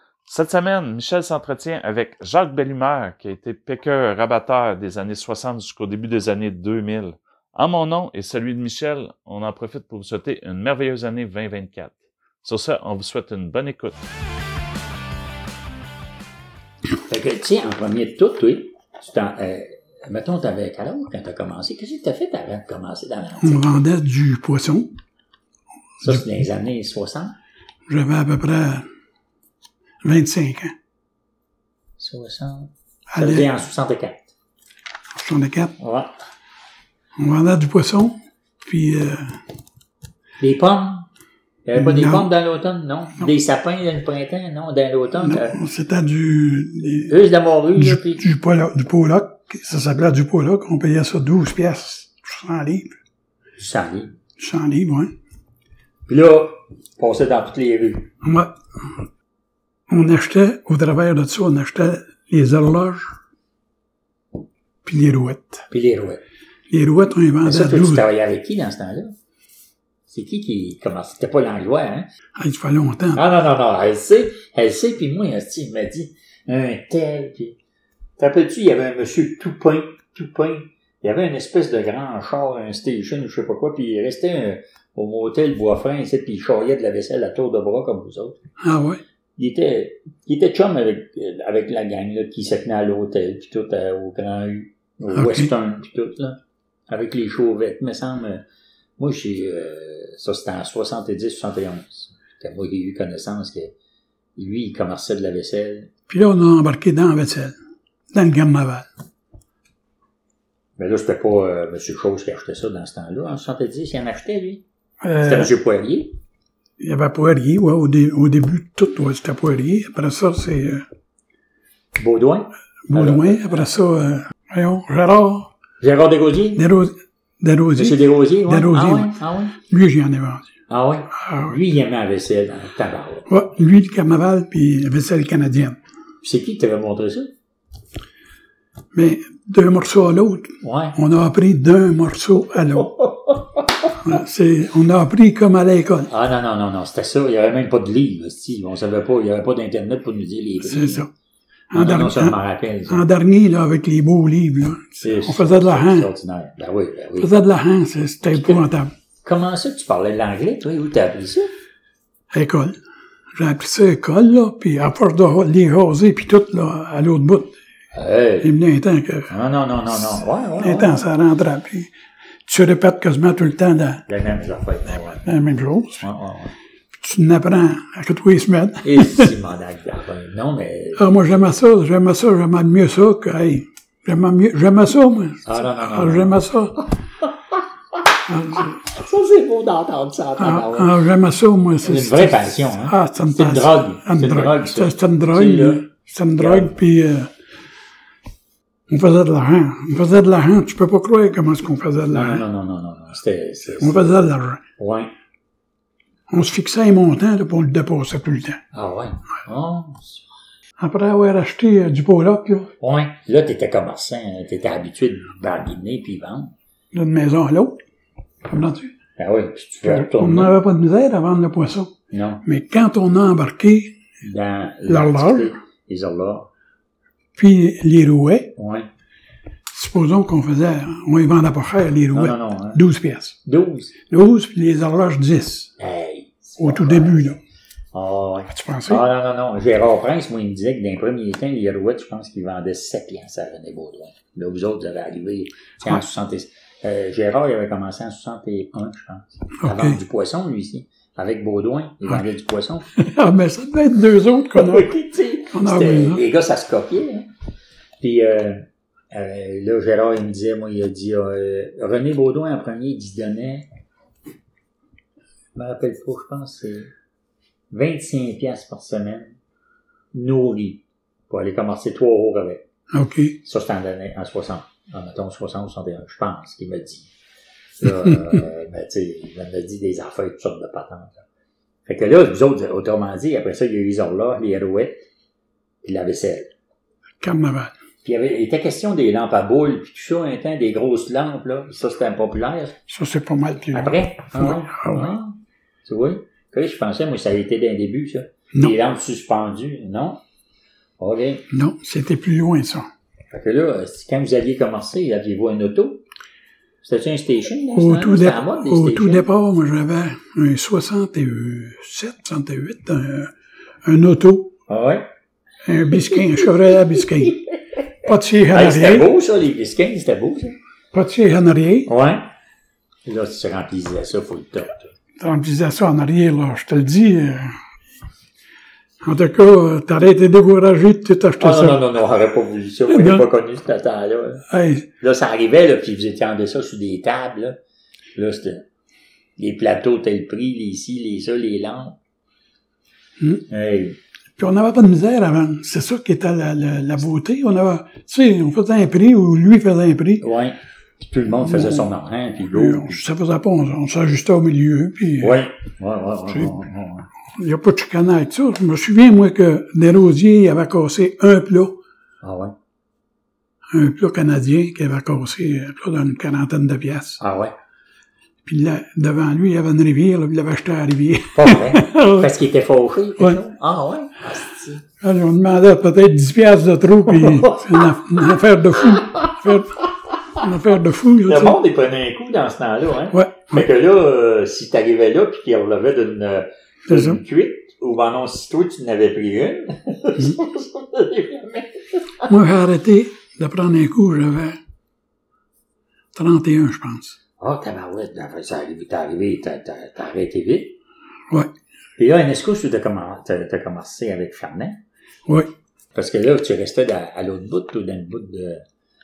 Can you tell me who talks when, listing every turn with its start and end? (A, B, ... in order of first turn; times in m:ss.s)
0:00.2-0:14.0 A
0:17.0-0:23.8 B
0:23.4-0:25.0 C
0:26.0-0:27.4 B
0:27.9-0:28.9 C
0:30.0-0:30.7 C
0:32.0-0:34.3 B
0:33.1-0:33.5 C
0:35.2-0:35.8 C
0:35.8-0:36.1 B
0:37.2-0:39.4 C
0:40.4-0:41.1 B
0:41.6-0:45.6 B
0:41.8-0:42.3 C
0:45.2-0:47.2 C
0:47.1-0:48.3 B
0:47.8-0:52.9 C
0:53.6-0:54.1 B
0:54.4-0:55.1 C
0:56.1-0:58.1 B
0:58.2-0:59.1 C
0:59.9-1:03.1 C
1:04.8-1:05.7 C
1:05.7-1:06.2 B
1:06.7-1:08.0 C
1:07.4-1:09.2 B
1:10.1-1:12.1 B
1:12.4-1:13.2 C
1:13.1-1:17.6 B
1:18.2-1:28.4 B
1:28.6-1:29.0 C
1:29.4-1:38.4 B
1:35.1-1:35.5 C
1:39.0-1:43.7 B
1:44.4-1:45.9 B
1:46.1-1:47.6 C
1:48.1-1:48.9 C
1:50.8-1:54.6 B
1:55.0-1:55.5 C
1:55.2-1:56.2 B
1:56.8-2:00.8 C
2:02.0-2:03.7 B
2:02.9-2:05.5 C
2:05.8-2:06.6 B
2:06.6-2:10.5 C
2:07.8-2:09.6 B
2:10.7-2:13.4 B
2:11.2-2:11.6 C
2:13.3-2:15.8 C
2:16.2-2:17.3 B
2:18.9-2:22.9 C
2:20.6-2:21.0 B
2:22.8-2:23.9 B
2:24.0-2:26.1 C
2:26.1-2:31.1 B
2:30.6-2:31.1 C
2:31.7-2:32.4 C
2:31.7-2:33.0 B
2:32.9-2:36.1 C
2:35.0-2:37.3 B
2:37.2-2:38.9 C
2:38.2-2:38.6 B
2:39.2-2:41.5 B
2:42.3-2:42.8 C
2:43.3-2:47.5 C
2:47.9-2:48.5 B
2:48.4-2:49.3 C
2:49.3-2:51.0 B
2:49.9-2:51.9 C
2:52.4-2:54.0 C
2:54.1-2:55.3 B
2:55.2-2:56.0 C
2:56.0-2:56.5 B
2:57.0-2:59.3 C
2:58.8-3:01.4 B
3:01.0-3:06.9 C
3:05.4-3:06.5 B
3:08.3-3:08.8 C
3:08.5-3:11.0 B
3:10.4-3:17.3 C
3:11.8-3:16.7 B
3:18.9-3:22.4 C
3:22.1-3:24.0 B
3:23.8-3:24.6 C
3:24.8-3:25.1 B
3:26.3-3:28.6 C
3:28.7-3:30.2 B
3:30.8-3:32.7 C
3:32.8-3:36.5 B
3:36.9-3:37.8 C
3:38.4-3:38.9 C
3:39.2-3:40.6 B
3:39.8-3:44.0 C
3:42.1-3:42.4 B
3:44.2-3:46.5 B
3:44.8-3:45.5 C
3:47.4-3:48.5 C
3:48.6-3:48.9 B
3:49.7-3:53.4 C
3:52.1-3:52.8 B
3:53.4-3:54.0 B
3:54.1-3:55.7 C
3:55.8-3:57.3 B
3:56.6-3:57.4 C
3:57.9-4:12.9 B
3:58.5-3:59.0 C
4:09.6-4:10.0 C
4:13.0-4:14.9 C
4:14.5-4:17.3 B
4:15.5-4:16.2 C
4:18.0-4:23.7 B
4:25.5-4:26.9 B
4:27.7-4:29.4 B
4:30.1-4:32.7 B
4:32.9-4:33.4 C
4:33.4-4:37.1 B
4:37.8-4:41.2 B
4:41.8-4:45.0 B
4:45.8-4:46.5 B
4:47.2-4:47.7 C
4:48.0-4:52.8 B
4:52.9-4:55.1 C
4:53.7-5:00.2 B
5:01.0-5:01.5 B
5:01.5-5:02.9 C
5:03.3-5:06.0 B
5:06.8-5:09.3 B
5:07.7-5:13.3 C
5:13.8-5:14.5 C
5:14.7-5:15.0 B
5:15.6-5:17.4 C
5:18.0-5:19.1 C
5:18.5-5:20.5 B
5:20.9-5:21.9 C
5:21.9-5:22.3 B
5:23.0-5:24.9 B
5:25.2-5:27.6 C
5:29.0-5:31.8 C
5:31.4-5:34.5 B
5:32.9-5:33.3 C
5:34.5-5:34.9 C
5:35.0-5:37.6 B
5:38.1-5:38.7 B
5:39.4-5:42.0 B
5:43.2-5:43.4 C
5:43.5-5:44.0 B
5:44.4-5:50.2 C
5:50.2-5:53.0 B
5:51.4-5:51.9 C
5:52.4-5:55.4 C
5:55.2-5:57.1 B
5:56.3-5:56.6 C
5:57.3-6:01.8 C
6:02.2-6:02.5 B
6:03.7-6:07.2 C
6:07.2-6:07.5 B
6:08.4-6:12.3 C
6:11.3-6:14.8 B
6:15.0-6:19.8 C
6:17.2-6:17.9 B
6:18.9-6:19.6 B
6:20.4-6:21.6 C
6:21.2-6:32.3 B
6:23.1-6:23.7 C
6:26.9-6:27.2 C
6:32.3-6:34.6 C
6:36.1-6:37.2 C
6:37.4-6:40.8 B
6:42.0-6:44.8 B
6:45.9-6:48.6 B